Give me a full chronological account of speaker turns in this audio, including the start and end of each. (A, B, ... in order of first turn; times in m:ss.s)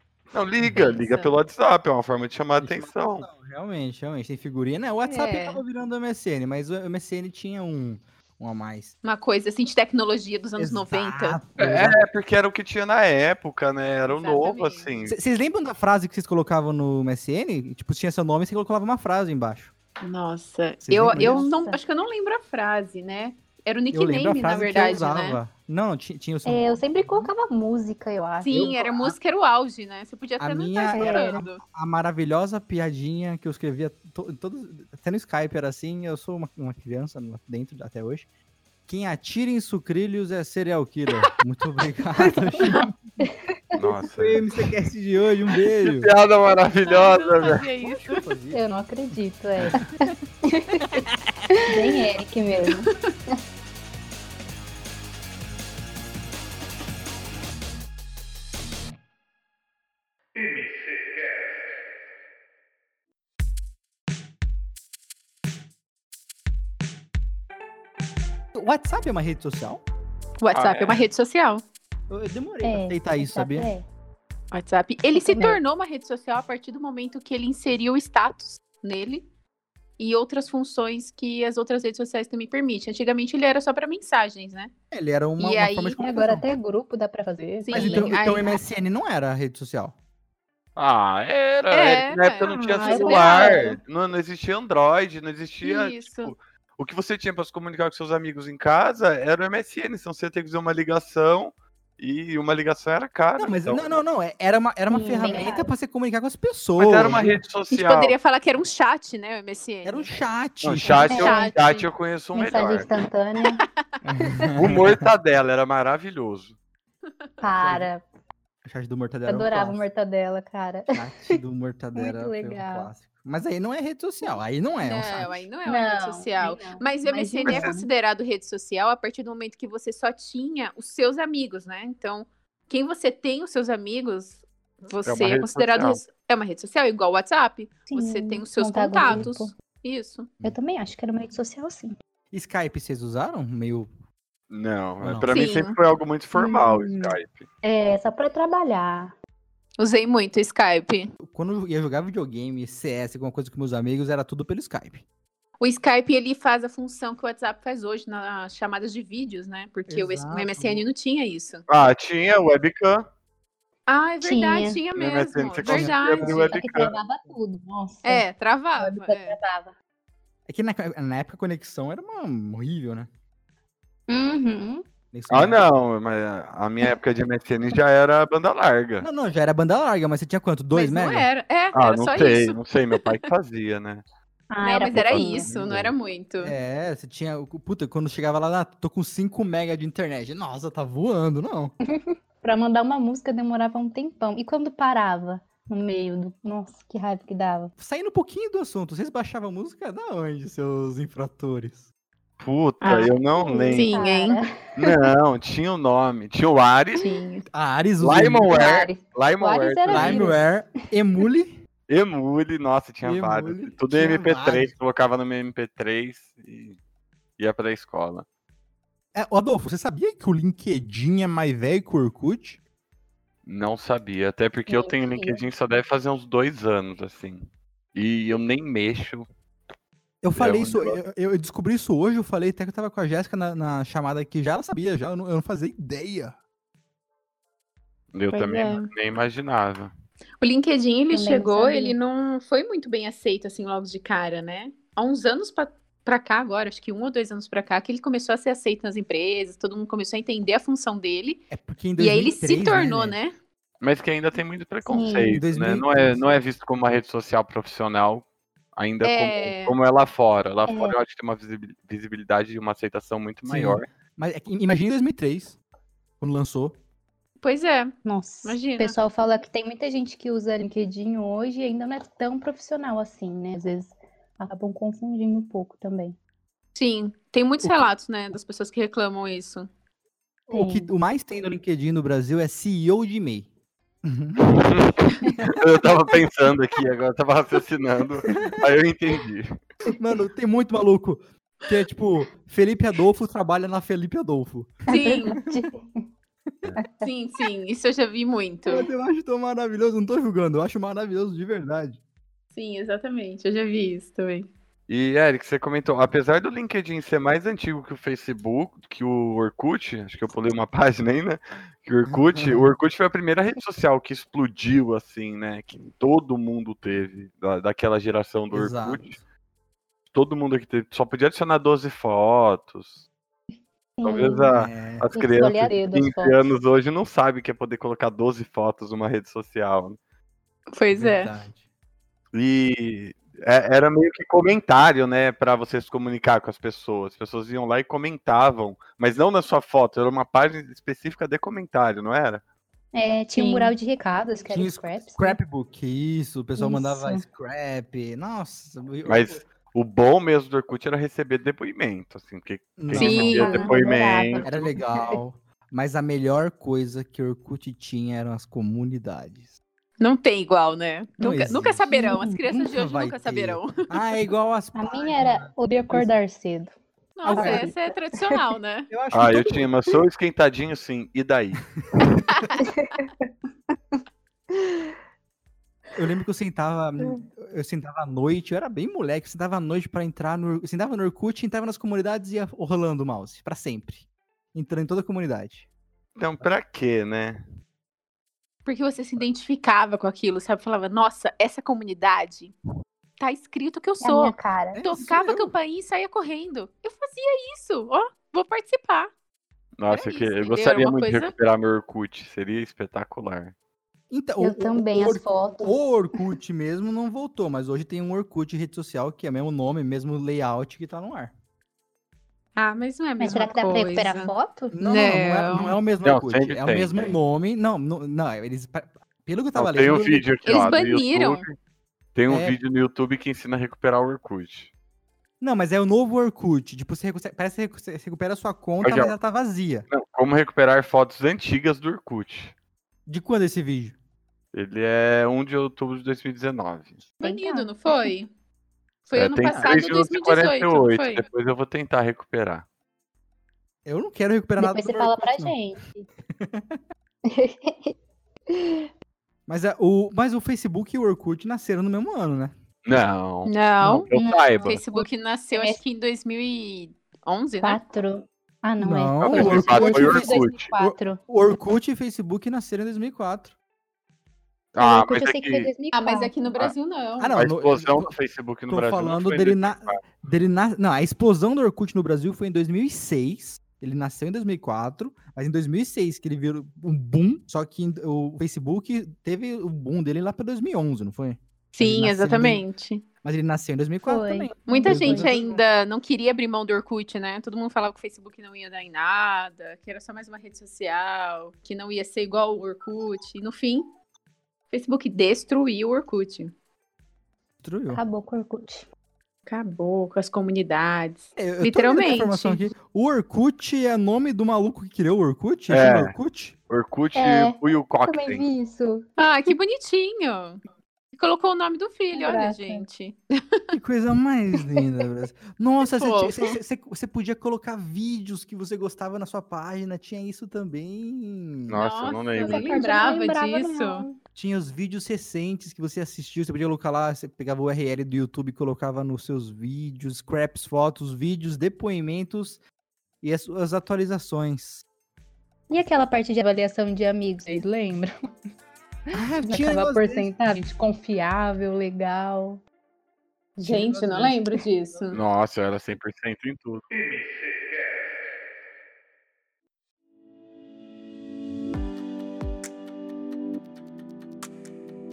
0:00.3-0:03.3 A
0:00.7-0:01.4 B
0:02.6-0:08.9 C
0:05.0-0:05.6 B
0:09.0-0:11.4 B
0:10.6-0:12.0 C
0:11.6-0:15.2 A
0:14.1-0:14.9 B
0:15.1-0:19.7 C
0:20.0-0:25.4 B
0:20.8-0:21.5 C
0:21.1-0:21.8 D
0:23.9-0:27.3 C
0:26.4-0:28.7 D
0:28.4-0:31.6 B
0:28.5-0:29.2 C
0:30.4-0:38.3 C
0:30.9-0:31.4 D
0:38.9-0:43.2 C
0:43.2-0:43.6 D
0:43.8-0:44.4 A
0:44.2-0:46.1 C
0:45.8-0:47.6 A
0:46.8-0:48.2 B
0:47.5-0:49.2 C
0:48.5-0:50.9 D
0:49.7-0:50.1 C
0:50.9-0:51.6 C
0:51.6-0:52.9 D
0:52.7-0:52.9 B
1:08.5-1:09.8 C
1:10.4-1:11.6 B
1:10.5-1:11.0 A
1:12.1-1:13.7 C
1:12.6-1:13.9 D
1:14.5-1:19.3 B
1:15.2-1:15.6 D
1:20.0-1:24.7 B
1:24.9-1:26.4 C
1:25.4-1:26.0 B
1:26.0-1:28.2 D
1:27.6-1:28.6 B
1:27.7-1:29.9 C
1:30.8-1:44.0 A
1:31.7-1:33.6 B
1:32.8-1:33.8 D
1:35.6-1:36.3 B
1:43.4-1:47.4 C
1:44.9-1:45.7 D
1:46.8-1:48.1 A
1:47.7-1:50.2 B
1:49.8-1:51.3 C
1:50.6-1:52.9 A
1:50.8-1:51.9 B
1:51.1-1:51.6 D
1:52.4-1:53.6 D
1:53.4-1:53.7 B
1:54.0-1:55.1 C
1:54.3-1:54.5 D
1:54.6-1:56.6 A
1:57.4-1:58.0 D
1:57.6-1:57.9 C
1:58.6-1:59.8 C
1:59.3-2:01.4 D
2:00.9-2:05.5 C
2:02.0-2:02.9 D
2:04.8-2:20.3 B
2:05.7-2:07.9 D
2:07.4-2:07.7 A
2:15.0-2:16.0 A
2:17.9-2:19.5 D
2:19.0-2:19.3 C
2:20.4-2:22.0 D
2:22.3-2:23.9 C
2:24.5-2:27.5 A
2:25.0-2:25.3 C
2:25.3-2:25.8 B
2:26.4-2:29.1 D
2:29.8-2:31.1 B
2:31.2-2:35.0 C
2:35.6-2:41.6 B
2:39.9-2:40.9 C
2:41.7-2:43.1 A
2:43.9-2:46.6 B
2:44.2-2:44.8 D
2:45.0-2:46.9 A
2:45.6-2:46.4 C
2:46.4-2:49.7 D
2:48.0-2:49.4 B
2:50.5-2:53.1 C
2:54.1-2:54.8 D
2:55.1-2:55.7 C
2:55.3-2:59.1 A
2:59.0-3:01.3 C
3:00.7-3:03.2 B
3:01.7-3:04.0 A
3:04.5-3:05.5 D
3:04.6-3:06.5 B
3:05.1-3:05.8 A
3:05.5-3:11.8 C
3:11.9-3:17.7 D
3:17.8-3:21.9 C
3:22.4-3:24.0 A
3:22.8-3:24.4 B
3:23.3-3:25.0 D
3:24.8-3:27.1 A
3:27.0-3:27.5 B
3:27.5-3:28.5 C
3:28.0-3:30.4 A
3:28.5-3:30.4 D
3:29.9-3:31.6 C
3:31.9-3:36.8 A
3:33.0-3:34.7 C
3:37.4-3:38.3 A
3:39.2-3:42.6 C
3:43.4-3:49.3 A
3:44.7-3:45.4 D
3:50.2-3:56.4 C
3:50.4-3:51.0 A
3:58.1-3:59.9 A
3:58.3-3:58.9 B
4:00.4-4:11.4 B
4:01.1-4:02.0 D
4:11.5-4:13.2 C
4:12.0-4:13.4 B
4:13.8-4:23.8 A
4:14.8-4:15.4 D
4:15.3-4:16.4 C
4:19.0-4:19.8 B
4:20.7-4:21.0 D
4:23.5-4:25.6 C
4:26.2-4:26.8 C
4:27.4-4:29.0 B
4:28.0-4:36.2 D
4:36.8-4:39.7 B
4:40.5-4:43.5 C
4:40.5-4:40.9 D
4:44.0-4:44.7 C
4:44.4-4:49.6 A
4:48.3-4:48.6 C
4:49.9-4:55.7 C
4:54.9-4:55.4 B
4:54.9-4:56.0 D
4:56.8-4:57.1 D
4:57.0-4:58.9 B
4:58.7-5:02.0 C
5:02.5-5:04.5 B
5:04.9-5:19.2 A
5:12.1-5:12.7 C
5:18.5-5:19.2 C
5:20.1-5:23.0 A
5:24.0-5:24.6 D
5:24.0-5:30.0 A
5:24.5-5:25.1 C
5:25.1-5:26.5 D
5:30.7-5:31.4 B
5:30.9-5:31.6 C
5:32.3-5:42.4 A
5:42.9-5:45.4 D
5:43.4-5:43.8 B
5:44.5-5:49.5 C
5:46.6-5:47.2 D
5:49.0-5:54.8 A
5:52.8-5:53.7 C
5:52.9-5:53.7 B
5:53.4-5:55.2 D
5:54.4-5:59.6 C
6:00.0-6:04.0 B
6:01.2-6:06.1 C
6:04.8-6:06.7 D
6:07.2-6:08.9 B
6:07.2-6:07.7 C
6:07.3-6:08.4 D
6:08.9-6:09.7 C
6:09.1-6:11.7 A
6:11.8-6:12.2 C
6:12.3-6:12.6 B
6:12.6-6:13.1 D
6:14.5-6:14.9 D
6:16.0-6:25.7 C
6:26.2-6:27.4 A
6:28.6-6:32.6 B
6:33.2-6:39.1 B
6:34.0-6:34.8 D
6:34.8-6:35.5 C
6:39.8-6:43.5 A
6:39.9-6:41.3 B
6:44.1-6:51.3 C
6:44.4-6:45.8 D
6:52.6-6:55.7 B
6:53.2-6:54.8 D
6:54.7-7:00.7 C
6:56.0-6:57.2 A
6:59.6-7:01.6 A
7:00.5-7:01.5 B
7:02.2-7:04.7 A
7:02.3-7:02.6 C
7:05.4-7:09.9 C
7:08.8-7:09.1 A
7:09.9-7:12.5 A
7:13.1-7:14.0 C
7:14.5-7:17.0 A
7:17.2-7:18.1 D
7:17.2-7:18.3 B
7:19.1-7:21.3 B
7:19.1-7:22.6 A
7:23.8-7:25.6 C
7:24.6-7:26.1 D
7:26.3-7:26.8 C
7:27.2-7:28.0 D
7:28.5-7:28.9 D
7:29.5-7:32.5 C
7:32.8-7:34.8 A
7:33.5-7:34.1 B
7:33.8-7:34.1 C
7:34.1-7:35.8 D
7:34.6-7:37.8 B
7:37.6-7:41.2 D
7:38.8-7:43.5 C
7:39.2-7:40.7 A
7:44.8-7:45.7 A
7:44.8-7:46.5 D
7:45.9-7:47.3 B
7:47.2-7:48.2 C
7:47.4-7:50.0 A
7:48.7-8:02.6 C
8:01.7-8:03.0 B
8:03.2-8:05.6 C
8:04.1-8:05.4 D
8:04.7-8:13.9 B
8:14.7-8:16.5 B
8:17.6-8:18.0 C
8:17.9-8:18.9 D
8:19.5-8:22.6 B
8:21.4-8:26.6 C
8:25.7-8:26.1 A
8:26.7-8:28.4 A
8:27.2-8:29.1 D
8:29.2-8:30.6 B
8:31.1-8:33.7 B
8:32.1-8:32.9 D
8:33.7-8:41.8 C
8:35.8-8:36.6 B
8:41.7-8:42.8 A
8:41.8-8:44.1 B
8:42.4-8:44.2 D
8:44.4-8:52.6 C
8:53.2-8:54.8 C
8:55.7-8:58.1 D
8:59.1-9:00.6 C
8:59.1-9:02.6 D
9:03.6-9:05.2 B
9:03.6-9:04.4 C
9:05.1-9:07.6 A